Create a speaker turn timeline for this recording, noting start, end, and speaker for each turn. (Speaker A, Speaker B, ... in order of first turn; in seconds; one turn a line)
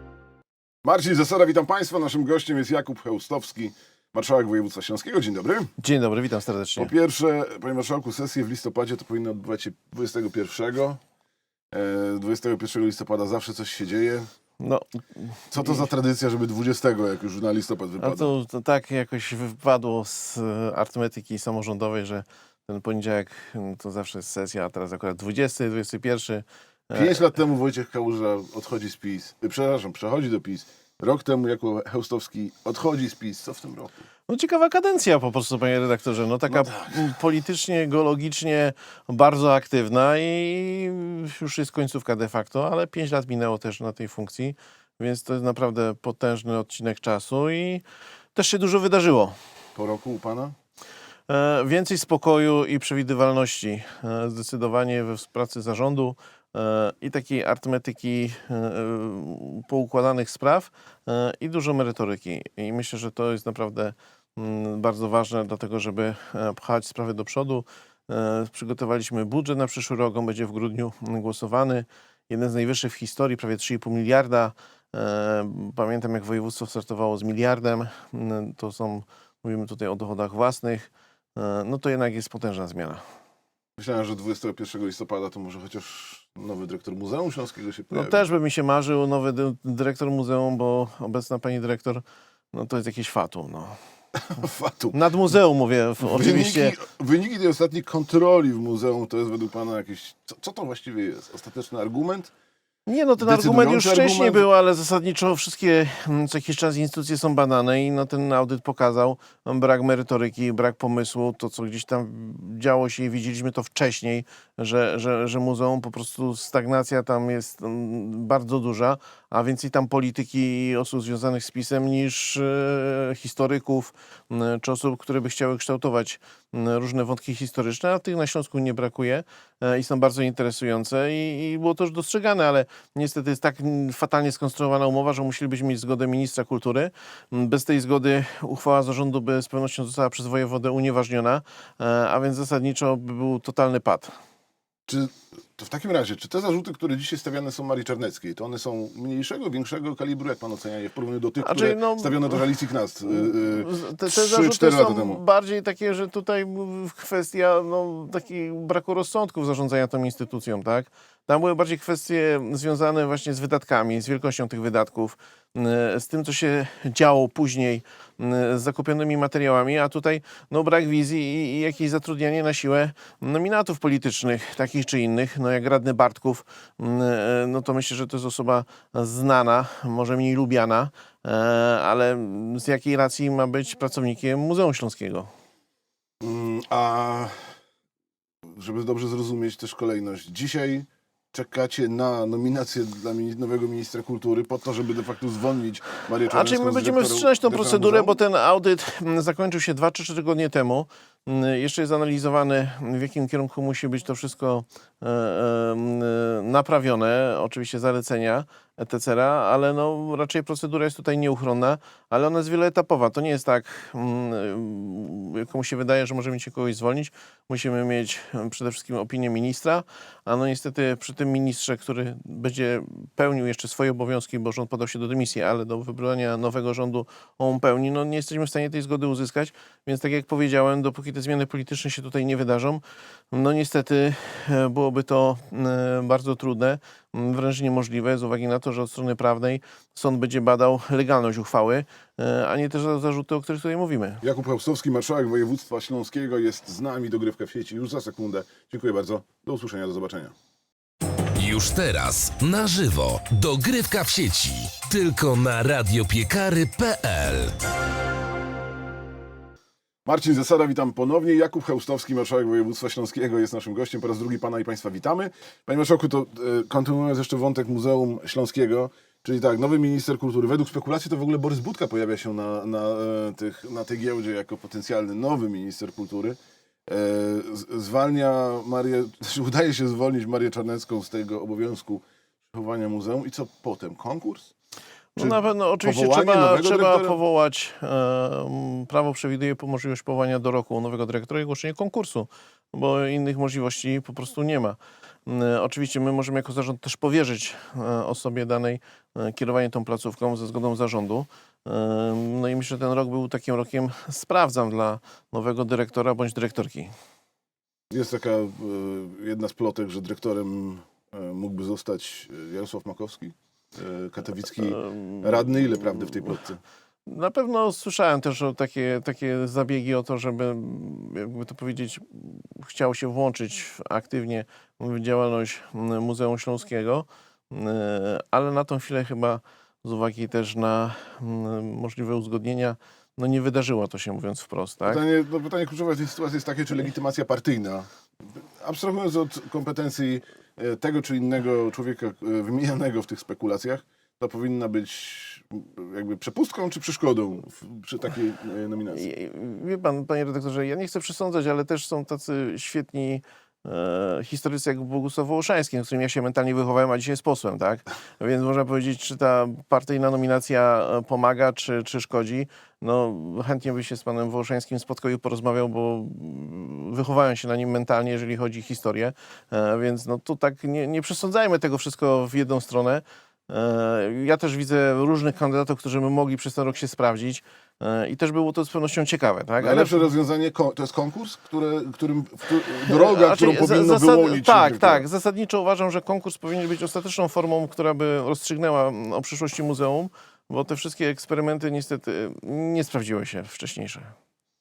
Speaker A: 0.8-5.7
Speaker B: 5.8-6.9
Speaker A: 6.8-11.0
Speaker A: 11.7-14.3
Speaker B: 14.6-15.9
Speaker A: 15.5-18.3
Speaker B: 18.0-27.3
Speaker A: 26.9-34.0
Speaker B: 34.3-47.8
Speaker A: 36.5-37.0
Speaker B: 48.4-49.4
Speaker A: 49.8-50.6
Speaker B: 51.3-83.0
Speaker A: 83.8-88.2
Speaker B: 87.9-93.8
Speaker A: 94.3-95.0
Speaker B: 94.9-96.8
Speaker A: 96.0-102.3
Speaker B: 102.9-144.1
Speaker A: 103.2-104.5
Speaker A: 144.9-155.2
Speaker B: 151.4-152.4
Speaker B: 153.2-185.3
Speaker A: 186.2-187.6
Speaker A: 188.5-198.2
Speaker B: 196.3-244.2
Speaker A: 244.2-250.3
Speaker C: 251.4-257.6
Speaker A: 260.1-284.5
Speaker B: 285.2-306.9
Speaker A: 285.2-287.2
Speaker A: 307.9-316.6
Speaker B: 314.8-315.3
Speaker B: 317.1-335.0
Speaker A: 334.9-349.1
Speaker B: 348.9-380.1
Speaker A: 379.6-385.1
Speaker B: 382.9-394.1